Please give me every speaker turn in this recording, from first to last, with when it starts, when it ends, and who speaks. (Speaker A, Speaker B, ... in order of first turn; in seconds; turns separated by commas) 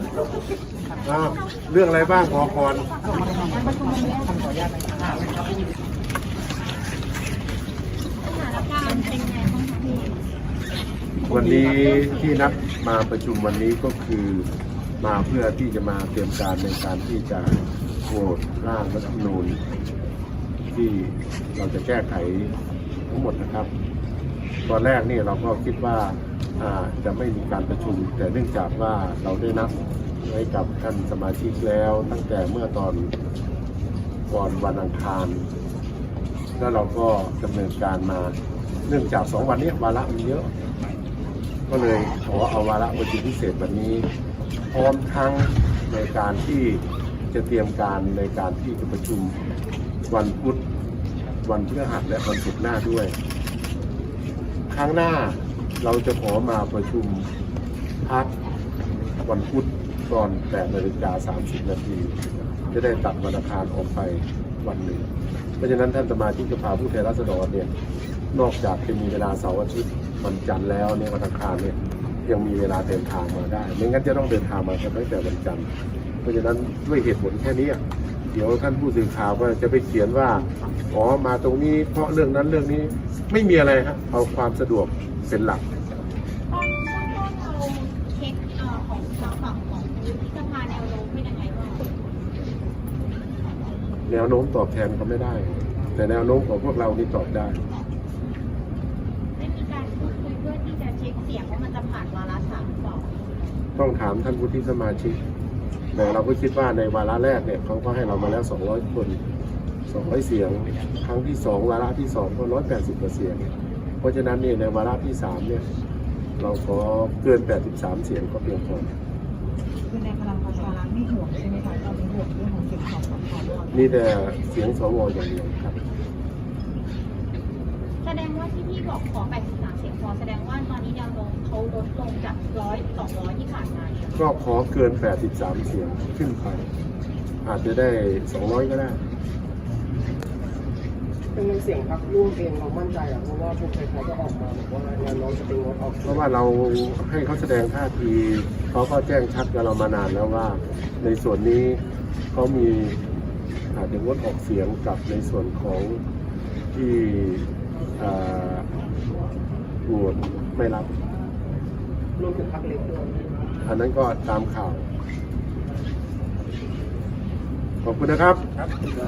Speaker A: 1.0-2.9, Speaker B: 3.1-4.4, Speaker C: 3.7-5.2, Speaker B: 8.2-10.2, Speaker A: 11.2-14.5, Speaker B: 11.6-12.5, Speaker A: 15.0-19.6, Speaker A: 20.7-22.5, Speaker A: 23.1-23.7, Speaker A: 24.6-33.1, Speaker A: 34.3-35.5, Speaker A: 36.6-38.3, Speaker A: 38.9-40.5, Speaker A: 41.7-44.1, Speaker A: 44.7-49.4, Speaker A: 50.1-50.6, Speaker A: 51.4-53.1, Speaker A: 54.7-57.3, Speaker A: 58.0-58.3, Speaker A: 59.2-62.1, Speaker A: 62.7-67.7, Speaker A: 68.3-75.7, Speaker A: 76.2-85.7, Speaker B: 86.5-91.9, Speaker A: 94.1-97.6, Speaker B: 99.3-103.1, Speaker A: 103.8-105.2, Speaker A: 105.9-109.2, Speaker A: 109.9-115.6, Speaker A: 116.4-118.9, Speaker C: 119.9-123.8, Speaker A: 123.7-125.8, Speaker B: 128.0-134.2, Speaker A: 134.1-136.6, Speaker A: 137.4-139.0, Speaker D: 141.3-146.1, Speaker A: 146.0-153.0, Speaker A: 153.7-156.0, Speaker A: 156.7-158.7, Speaker A: 159.8-160.9, Speaker D: 162.2-163.2, Speaker A: 163.6-164.9, Speaker A: 167.8-168.4